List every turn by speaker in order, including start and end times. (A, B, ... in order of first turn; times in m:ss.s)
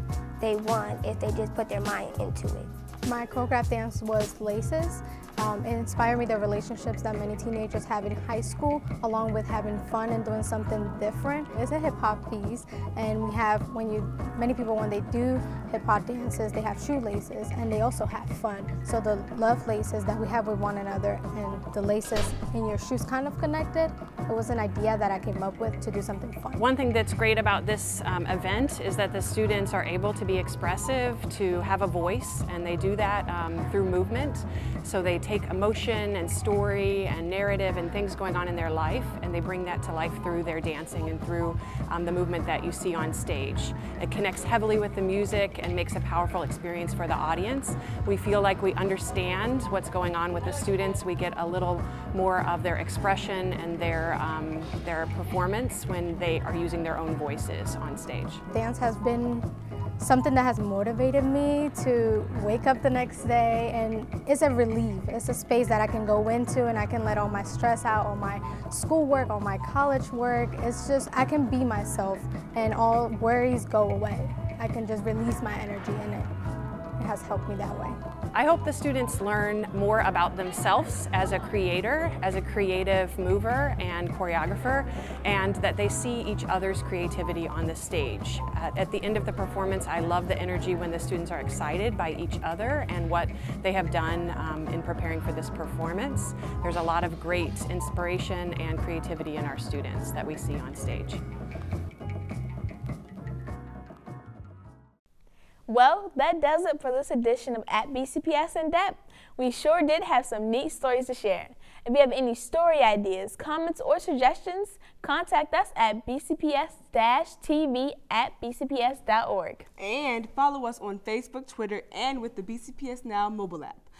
0:00.4-0:02.7 A
0:03.0-0:26.6 B
0:26.6-0:58.4 C
0:58.5-0:59.4 B
1:00.0-1:16.3 B
1:17.0-1:18.0 B
1:18.3-1:41.2 C
1:45.7-1:59.7 D
1:59.8-2:03.9 E